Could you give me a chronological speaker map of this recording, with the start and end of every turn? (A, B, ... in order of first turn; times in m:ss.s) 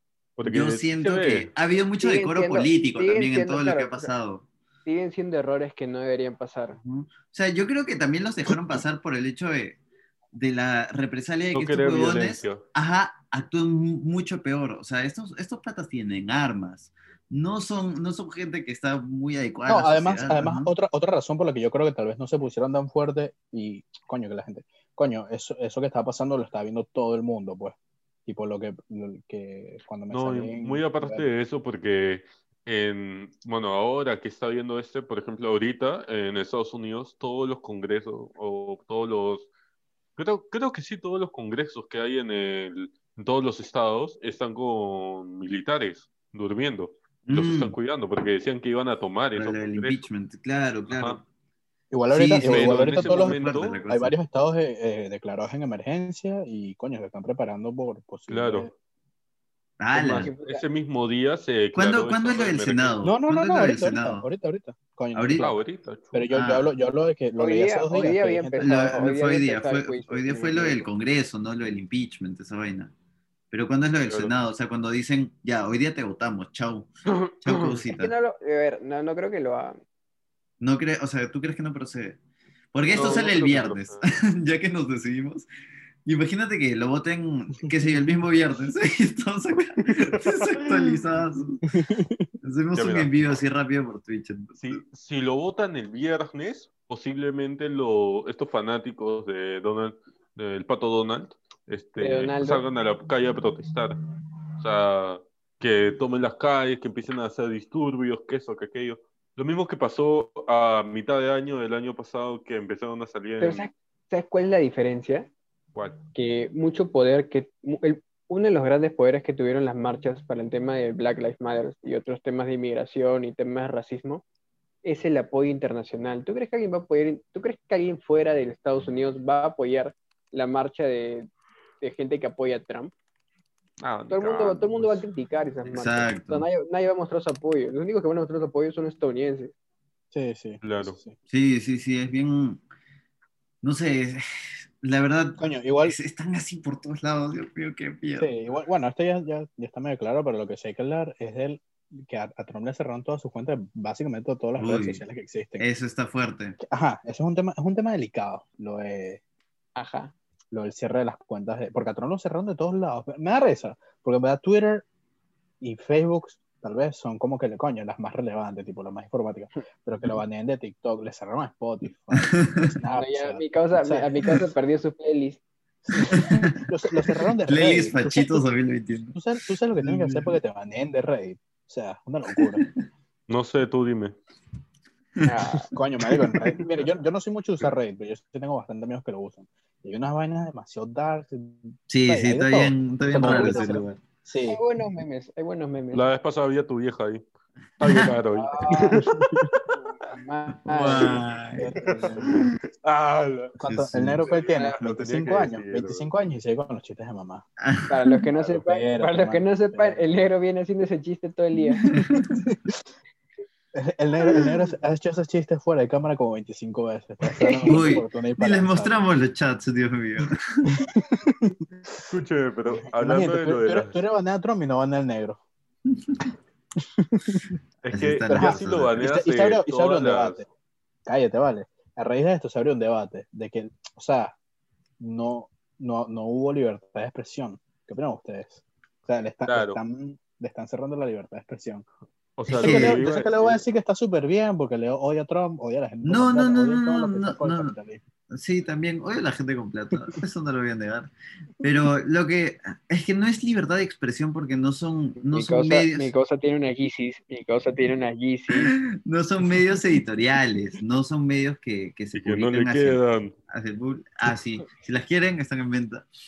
0:00.4-0:01.5 A
0:00.4-0:04.4 B
0:02.0-0:04.1 C
0:04.9-0:06.8 C
0:06.8-0:09.8 B
0:10.3-0:20.7 B
0:11.5-0:12.6 A
0:19.6-0:31.3 D
0:30.1-0:39.5 A
0:40.2-0:50.0 A
0:47.3-0:47.8 B
0:49.4-0:51.2 B
0:50.9-0:51.2 A
0:51.9-0:58.7 D
0:52.1-0:54.1 B
0:52.3-0:53.8 A
0:58.3-0:58.7 A
0:59.8-1:00.3 B
0:59.9-1:03.1 A
1:00.1-1:00.6 C
1:01.8-1:04.3 B
1:03.0-1:05.5 D
1:05.1-1:05.5 B
1:05.4-1:06.2 A
1:06.1-1:09.0 D
1:06.3-1:06.7 B
1:07.4-1:10.9 C
1:08.6-1:12.9 B
1:13.5-1:16.9 B
1:14.1-1:14.3 A
1:17.1-1:17.8 A
1:17.4-1:18.1 B
1:17.9-1:19.8 C
1:20.6-1:22.2 B
1:22.7-1:25.5 B
1:22.9-1:24.1 A
1:26.0-1:31.6 B
1:30.1-1:31.0 A
1:31.7-1:32.3 D
1:32.4-1:34.8 B
1:32.8-1:33.1 A
1:34.6-1:44.0 A
1:42.0-1:42.6 C
1:44.6-1:53.7 A
1:53.4-1:55.3 C
1:56.1-2:04.2 C
2:04.8-2:11.3 C
2:11.8-2:12.9 C
2:13.8-2:15.0 A
2:14.1-2:19.5 C
2:15.7-2:16.5 B
2:20.1-2:21.2 D
2:20.6-2:21.0 A
2:21.3-2:22.6 B
2:23.6-2:28.3 B
2:25.4-2:26.0 D
2:28.2-2:35.6 D
2:34.6-2:35.0 B
2:35.6-2:36.6 B
2:36.6-2:39.2 D
2:39.8-2:40.1 C
2:40.5-2:44.8 D
2:45.6-2:54.3 D
2:52.1-2:52.7 B
2:52.9-2:55.4 C
2:55.9-2:58.4 D
2:56.0-2:59.2 B
2:59.1-3:02.6 D
2:59.8-3:00.4 B
3:02.4-3:02.7 B
3:03.3-3:04.1 A
3:05.2-3:05.7 C
3:05.7-3:14.6 D
3:06.1-3:06.4 B
3:11.9-3:14.0 B
3:13.2-3:13.8 C
3:14.4-3:16.1 C
3:15.9-3:17.2 A
3:17.8-3:19.1 A
3:17.8-3:18.1 B
3:18.3-3:19.0 C
3:19.0-3:19.5 D
3:19.7-3:21.2 C
3:20.7-3:21.8 B
3:21.6-3:22.4 D
3:21.9-3:23.6 A
3:23.6-3:27.4 D
3:23.6-3:24.2 B
3:24.2-3:26.1 A
3:27.6-3:28.0 B
3:27.9-3:31.8 C
3:28.4-3:30.0 D
3:31.8-3:32.8 D
3:31.8-3:32.5 B
3:33.7-3:39.0 D
3:37.4-3:37.8 C
3:37.6-3:40.8 B
3:40.7-3:41.6 D
3:42.1-3:44.0 A
3:42.8-3:45.4 D
3:47.0-3:47.5 D
3:47.8-3:50.4 A
3:47.9-3:49.0 B
3:48.3-3:50.5 D
3:51.1-3:54.4 D
3:55.0-4:01.8 D
3:59.5-3:59.8 A
4:02.4-4:03.6 A
4:02.5-4:08.0 D
4:02.5-4:03.0 B
4:06.0-4:07.7 B
4:08.3-4:16.1 B
4:15.3-4:18.7 C
4:18.5-4:26.1 B
4:22.1-4:23.3 A